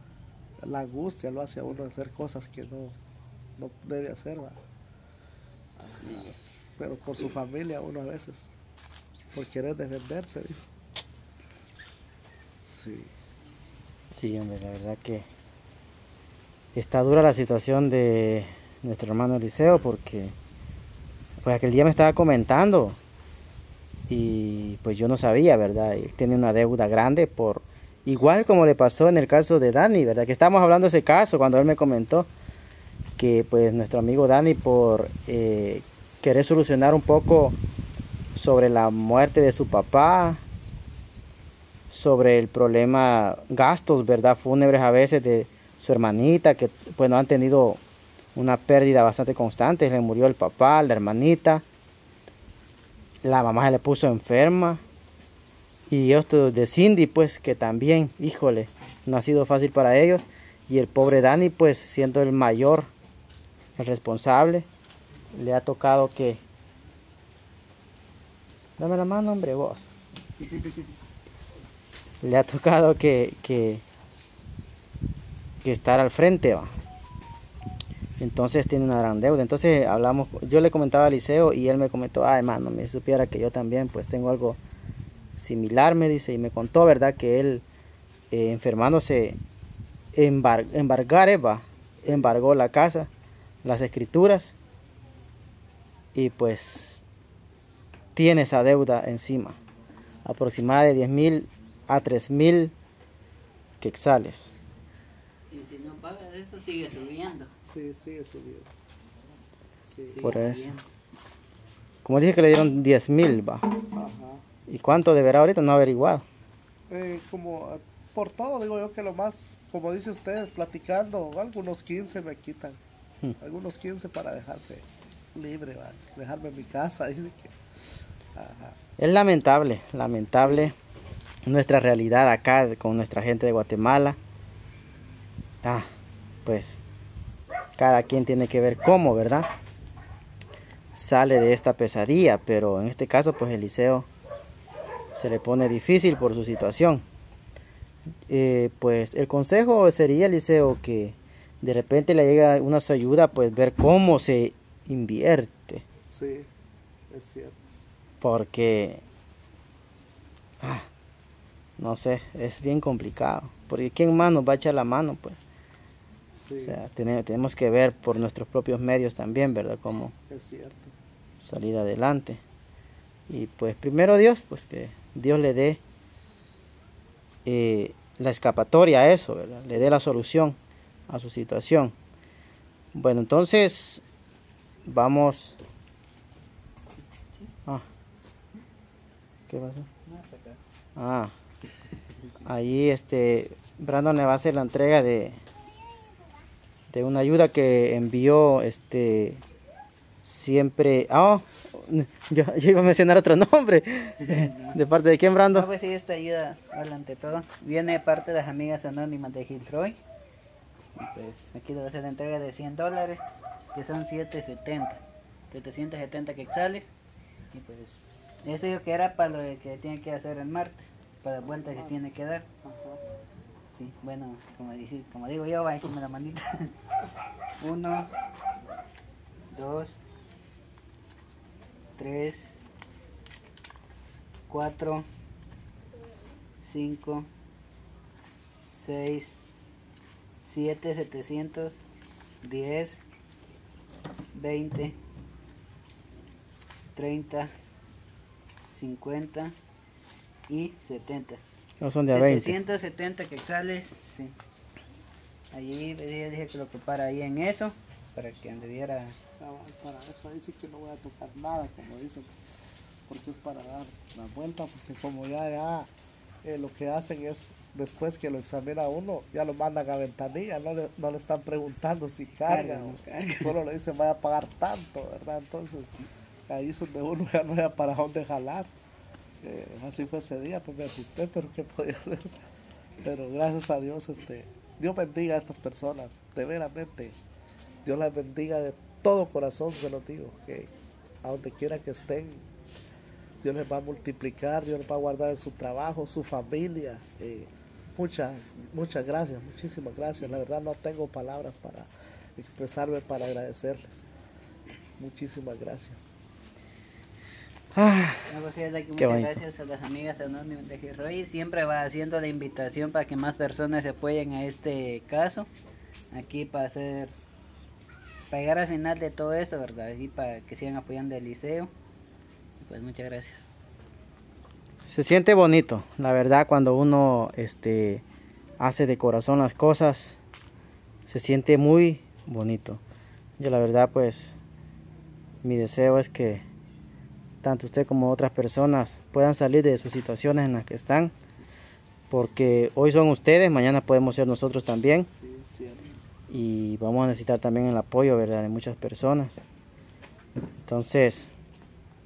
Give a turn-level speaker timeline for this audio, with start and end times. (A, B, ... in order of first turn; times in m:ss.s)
0:00.6-0:03.0 A
0:03.6-0:04.6 A
0:05.8-0:08.5 A
0:05.8-0:06.4 B
0:09.3-0:10.6 A
0:12.6-0:13.1 A
0:14.1-0:15.3 C
0:16.8-0:20.3 C
0:21.4-0:23.0 C
0:24.1-0:32.3 C
0:33.2-0:37.6 C
0:38.3-0:40.4 C
0:41.9-0:47.8 C
0:48.4-0:51.6 C
0:53.2-0:54.8 C
0:55.9-1:02.9 C
1:03.8-1:04.7 C
1:05.3-1:06.4 C
1:08.8-1:09.9 C
1:12.2-1:13.8 C
1:15.6-1:16.7 C
1:18.2-1:24.6 C
1:25.4-1:27.6 C
1:28.3-1:29.4 C
1:30.2-1:33.1 C
1:32.0-1:32.4 A
1:33.6-1:34.5 C
1:36.2-1:37.0 C
1:38.2-1:39.6 C
1:40.2-1:42.7 C
1:43.8-1:44.5 C
1:45.5-1:47.5 B
1:47.6-1:48.7 A
1:49.9-1:50.3 A
1:50.1-1:50.8 B
1:50.2-1:50.8 C
1:52.0-1:53.7 C
1:53.9-1:54.4 A
1:54.7-1:56.2 C
1:56.9-2:02.8 A
2:03.4-2:07.5 A
2:08.4-2:08.8 A
2:09.0-2:10.8 C
2:11.5-2:14.2 C
2:16.4-2:16.8 C
2:17.8-2:19.5 C
2:21.0-2:24.1 C
2:25.1-2:27.0 C
2:28.3-2:35.8 C
2:36.1-2:36.5 A
2:37.1-2:37.6 A
2:38.2-2:39.0 C
2:40.6-2:40.9 C
2:41.8-2:45.4 C
2:46.4-2:46.8 A
2:46.6-2:50.1 C
2:50.3-2:50.9 A
2:51.4-2:52.4 C
2:53.3-2:55.8 C
2:57.4-3:00.6 C
3:01.1-3:01.9 C
3:02.9-3:04.0 C
3:04.9-3:05.6 C
3:09.5-3:09.9 C
3:10.1-3:10.6 B
3:11.0-3:11.3 C
3:12.4-3:15.4 C
3:16.9-3:19.4 C
3:20.2-3:25.7 C
3:24.2-3:24.8 B
3:25.5-3:30.0 B
3:31.0-3:33.2 B
3:33.7-3:35.0 B
3:35.5-3:36.9 B
3:37.5-3:42.5 B
3:41.6-3:42.0 A
3:42.6-3:43.0 A
3:43.7-3:46.7 B
3:47.6-3:48.1 B
3:49.5-3:50.0 B
3:52.0-3:52.5 B
3:54.5-3:55.1 B
3:56.6-3:57.3 B
3:58.7-3:59.3 B
4:00.4-4:01.8 B
4:02.4-4:03.0 B
4:04.3-4:05.0 B
4:07.0-4:07.5 B
4:08.7-4:09.6 B
4:10.5-4:11.4 B
4:11.8-4:12.6 C
4:12.1-4:14.4 B
4:15.5-4:19.2 B
4:19.4-4:22.3 A
4:23.1-4:25.9 A
4:26.4-4:35.9 A
4:32.5-4:33.6 B
4:36.5-4:38.7 A
4:39.4-4:42.4 A
4:43.0-4:47.2 A
4:47.8-4:50.7 A
4:51.2-4:52.5 A
4:53.4-5:04.0 A
5:05.0-5:06.1 A
5:07.8-5:08.3 C
5:08.3-5:15.5 B
5:09.0-5:09.4 C
5:16.1-5:17.1 B
5:18.3-5:21.7 B
5:22.6-5:23.5 B
5:24.9-5:28.0 C
5:28.6-5:30.2 C
5:31.1-5:32.8 C
5:33.4-5:34.4 C
5:35.4-5:36.4 C
5:37.4-5:41.1 C
5:42.1-5:45.1 C
5:45.1-5:45.9 A
5:46.3-5:49.4 C
5:50.7-5:51.3 C